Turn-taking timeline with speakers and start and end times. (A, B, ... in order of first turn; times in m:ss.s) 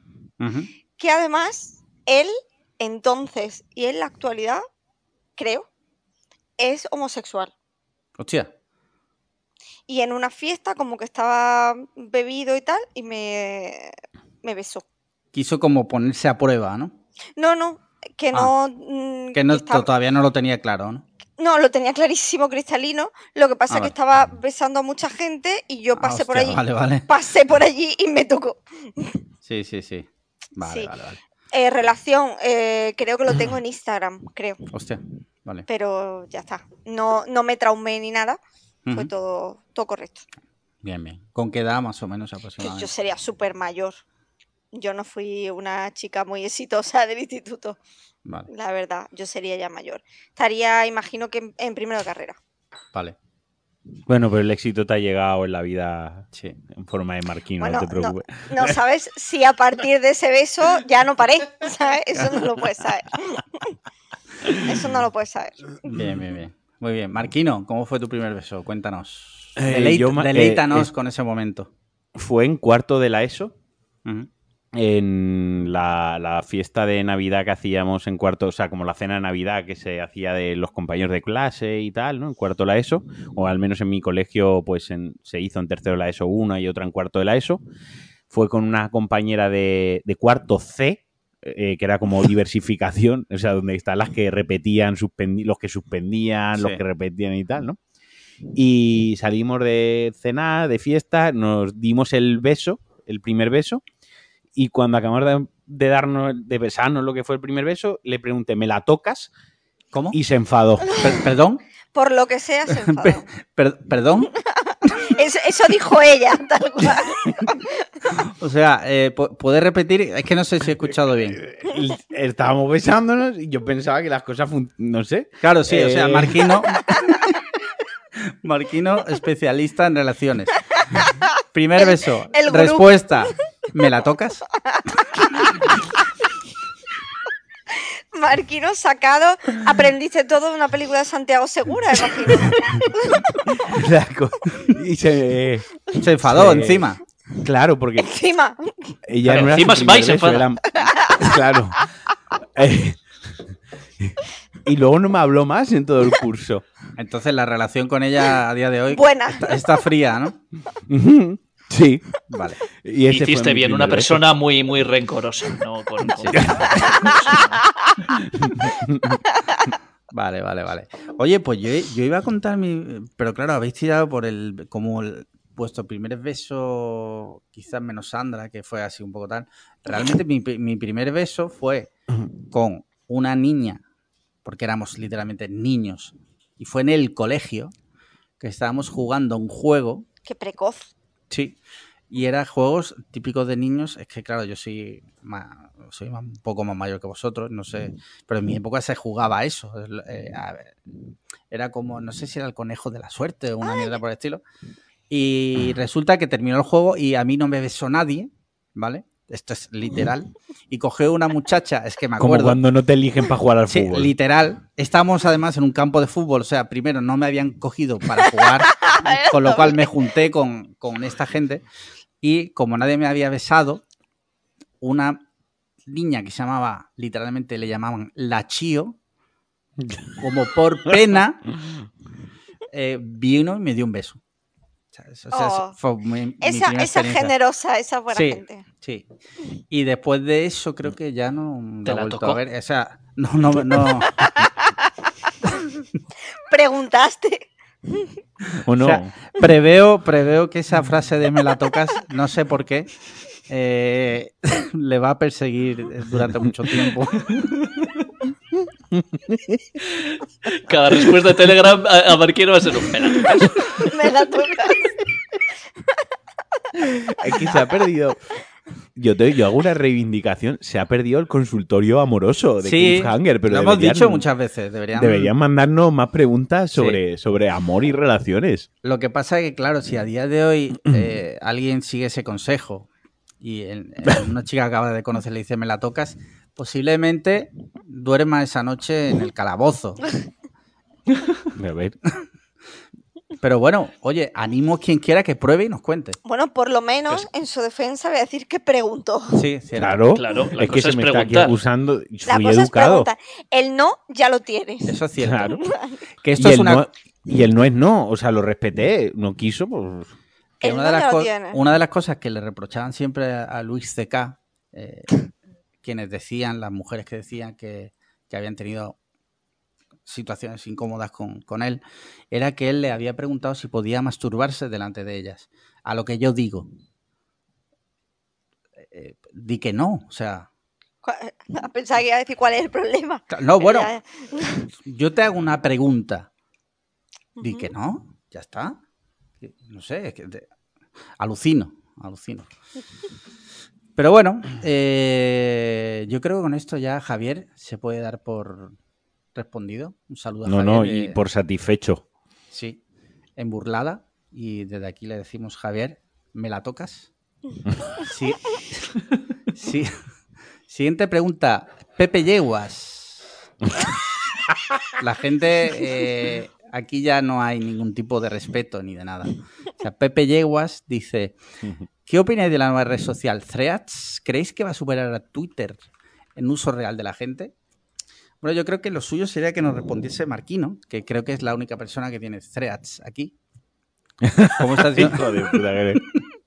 0:00.4-0:00.7 A
0:01.0-0:04.6 B
0:05.4-0:05.7 B
0:06.6-0:07.5 B
0:08.2-0:08.5 A
0:09.9-0:14.8 B
0:15.3-0:16.9 A
0:17.4-0:19.9 B
0:19.3-0:21.0 A
0:21.4-0:29.2 B
0:26.0-0:27.1 A
0:29.4-0:31.2 A
0:30.6-0:30.9 B
0:31.5-0:34.7 B
0:34.7-0:35.7 A
0:35.7-0:38.4 B
0:38.9-0:40.2 B
0:40.8-0:42.9 A
0:42.6-0:44.0 B
0:44.7-0:47.8 B
0:48.5-0:52.4 B
0:54.0-0:58.7 C
0:56.3-0:56.6 A
0:57.6-1:03.8 B
1:04.5-1:05.8 B
1:05.8-1:11.7 A
1:09.6-1:10.9 C
1:12.2-1:13.5 C
1:14.7-1:27.6 C
1:28.3-1:37.8 C
1:36.5-1:36.8 A
1:38.5-1:43.8 C
1:44.6-1:49.3 C
1:49.9-1:50.2 A
1:50.1-1:51.1 C
1:51.0-1:51.6 A
1:51.9-1:53.3 B
1:52.7-1:54.3 A
1:54.6-1:57.8 B
1:58.2-2:01.4 A
2:01.4-2:06.6 C
2:05.4-2:07.0 A
2:08.2-2:10.6 A
2:10.9-2:12.9 B
2:11.5-2:14.4 A
2:14.7-2:15.9 B
2:18.1-2:23.6 B
2:23.6-2:26.9 C
2:26.0-2:27.0 A
2:27.4-2:28.1 C
2:28.0-2:28.9 B
2:29.0-2:31.9 C
2:29.3-2:30.5 D
2:30.7-2:31.3 B
2:32.6-2:33.4 C
2:34.0-2:36.6 C
2:37.0-2:40.4 A
2:38.9-2:39.6 B
2:40.9-2:42.2 C
2:42.3-2:42.6 A
2:42.8-2:44.2 C
2:43.1-2:48.2 D
2:46.2-2:46.5 A
2:46.3-2:47.0 C
2:46.8-2:47.1 B
2:48.4-2:49.2 C
2:49.4-2:49.6 B
2:50.1-3:01.9 A
3:02.5-3:03.8 A
3:04.4-3:07.7 A
3:08.4-3:10.0 A
3:10.2-3:10.9 B
3:11.3-3:11.6 A
3:12.1-3:20.8 A
3:21.5-3:24.4 A
3:25.1-3:32.6 A
3:32.2-3:34.1 C
3:33.7-3:41.6 A
3:38.8-3:39.9 B
3:42.2-3:43.8 A
3:44.8-3:45.2 A
3:45.8-3:49.0 A
3:49.8-3:50.2 C
3:50.2-3:51.5 A
3:52.7-3:54.2 A
3:54.9-3:57.3 A
3:55.3-3:55.8 B
3:56.4-3:58.6 B
3:58.1-3:59.0 A
3:59.7-4:04.4 A
4:01.8-4:02.4 D
4:06.5-4:08.1 B
4:08.6-4:09.1 C
4:08.8-4:12.9 A
4:13.4-4:17.4 A
4:19.0-4:19.6 C
4:19.9-4:23.9 D
4:23.8-4:24.9 B
4:27.0-4:28.4 C
4:28.9-4:34.2 C
4:32.6-4:35.3 A
4:34.9-4:38.7 C
4:36.7-4:37.0 A
4:38.8-4:42.9 A
4:43.4-4:50.0 A
4:51.5-4:52.0 C
4:53.4-4:56.2 A
4:56.2-4:59.4 B
4:59.3-5:00.0 A
4:59.8-5:03.1 C
5:00.1-5:01.6 D
5:02.3-5:06.0 B
5:04.8-5:05.6 A
5:05.2-5:05.6 C
5:06.2-5:06.8 A
5:06.4-5:10.1 C
5:10.6-5:11.6 B
5:10.6-5:15.1 A
5:15.8-5:19.0 A
5:20.0-5:26.7 A
5:28.8-5:30.5 A
5:31.0-5:34.7 B
5:33.3-5:33.9 A
5:34.8-5:36.3 A
5:37.4-5:37.7 B
5:37.4-5:38.8 A
5:39.4-5:40.5 A
5:41.2-5:42.5 A
5:44.0-5:48.8 A
5:49.3-5:51.2 A
5:50.4-5:52.0 C
5:52.5-5:52.8 A
5:53.4-5:57.1 A
5:58.0-5:58.9 A
5:59.5-6:00.0 A
6:00.7-6:03.3 A
6:05.0-6:11.4 A
6:12.0-6:15.8 A
6:16.4-6:17.5 A
6:18.4-6:23.3 A
6:24.2-6:26.0 C
6:24.5-6:26.2 A